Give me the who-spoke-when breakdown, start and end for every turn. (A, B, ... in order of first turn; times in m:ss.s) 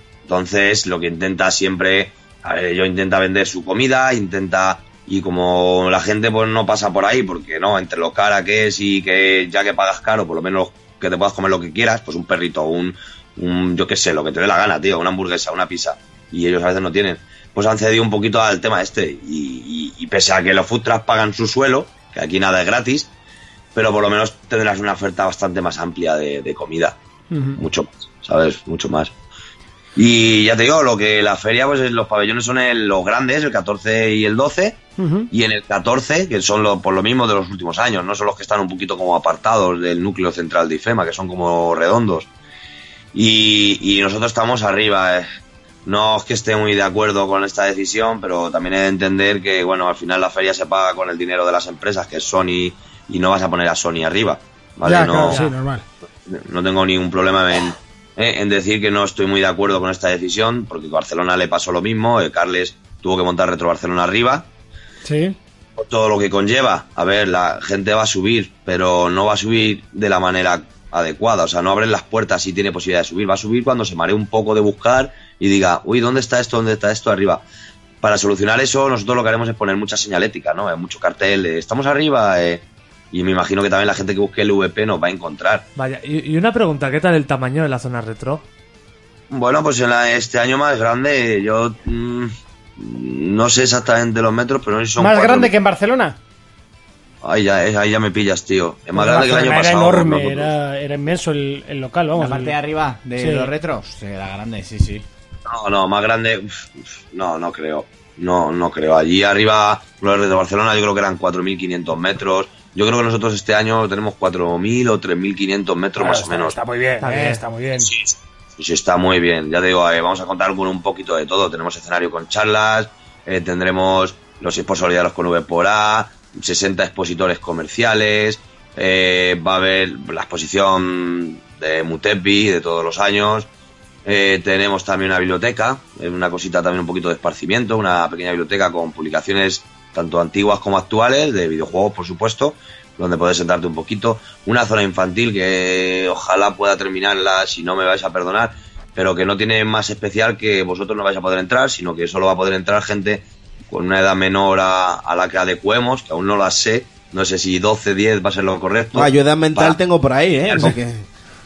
0:00.3-0:23.1 A
0:23.7-0:27.0 A
0:27.3-0:27.6 B
0:27.6-0:29.1 A
0:30.0-0:34.8 A
0:35.0-0:35.3 B
0:35.3-0:42.3 A
0:43.1-0:45.3 A
0:45.8-0:55.4 A
0:54.8-0:55.8 B
0:56.3-1:04.5 A
1:05.0-1:05.4 B
1:05.8-1:17.4 A
1:18.0-1:25.7 A
1:25.8-1:28.4 C
1:29.3-1:35.5 A
1:35.0-1:36.2 B
1:37.2-1:40.5 A
1:38.9-1:42.6 B
1:42.2-1:45.0 D
1:43.2-1:43.5 B
1:45.5-1:56.6 A
1:56.0-1:57.9 B
1:57.0-1:57.4 C
1:57.8-2:13.5 A
2:14.0-2:39.8 A
2:38.9-2:41.0 E
2:40.4-2:40.7 A